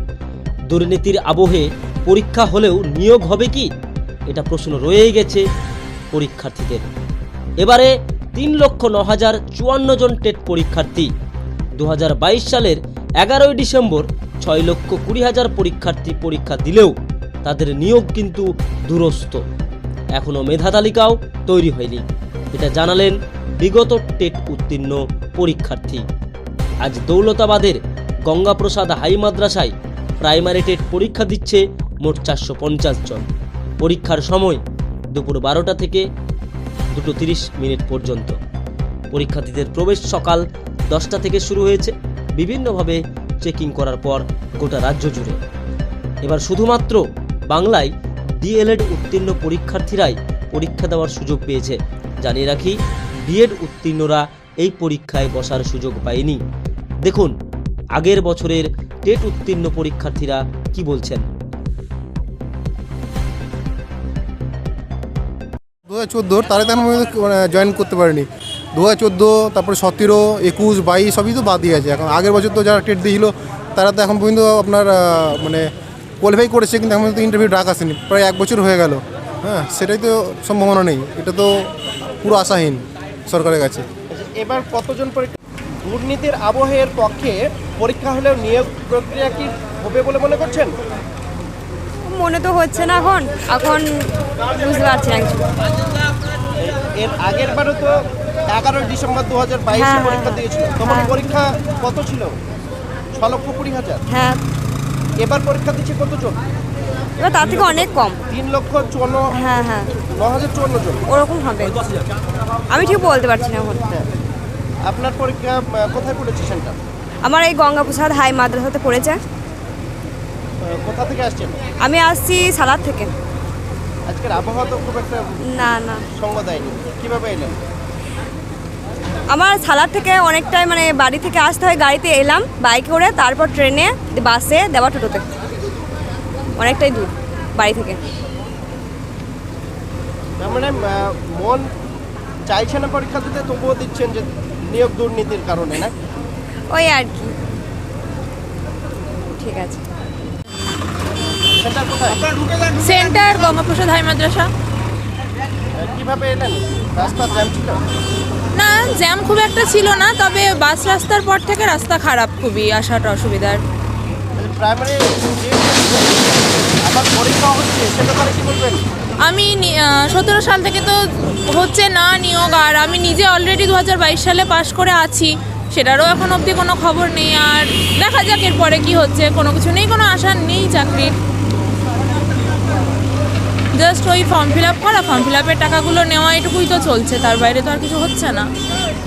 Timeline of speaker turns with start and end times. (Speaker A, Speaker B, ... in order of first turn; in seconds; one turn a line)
Speaker A: 0.7-3.7
Speaker A: 4.3-5.4
Speaker A: 6.1-6.8
Speaker A: 7.6-11.1
Speaker A: 11.8-19.4
Speaker A: 20.1-26.1
Speaker A: 26.8-33.3
Speaker A: 33.8-34.6
Speaker A: 35.1-36.0
Speaker A: 36.9-38.4
Speaker A: 39.1-45.4
Speaker A: 46.2-56.4
Speaker A: 57.0-57.3
Speaker A: 57.9-61.2
Speaker B: 65.8-75.7
Speaker B: 76.2-83.8
Speaker C: 84.1-90.8
Speaker D: 92.1-95.4
Speaker C: 96.6-102.4
Speaker D: 99.7-101.1
Speaker C: 103.1-104.0
Speaker D: 104.1-104.4
Speaker C: 105.2-106.4
Speaker D: 107.2-108.2
Speaker C: 108.3-109.4
Speaker D: 109.3-110.0
Speaker C: 110.0-111.0
Speaker D: 111.1-111.8
Speaker D: 112.7-113.8
Speaker C: 114.8-116.8
Speaker D: 117.2-119.2
Speaker C: 120.7-121.6
Speaker D: 121.8-123.1
Speaker C: 124.1-125.3
Speaker D: 125.5-126.0
Speaker C: 126.1-127.6
Speaker D: 129.3-135.2
Speaker D: 136.6-138.0
Speaker C: 140.4-141.7
Speaker C: 142.5-145.9
Speaker D: 146.7-147.3
Speaker D: 149.4-149.8
Speaker C: 151.5-152.3
Speaker E: 152.8-154.5
Speaker C: 155.7-157.8
Speaker E: 158.6-163.6
Speaker C: 164.3-168.8
Speaker E: 169.2-181.1
Speaker E: 183.7-188.5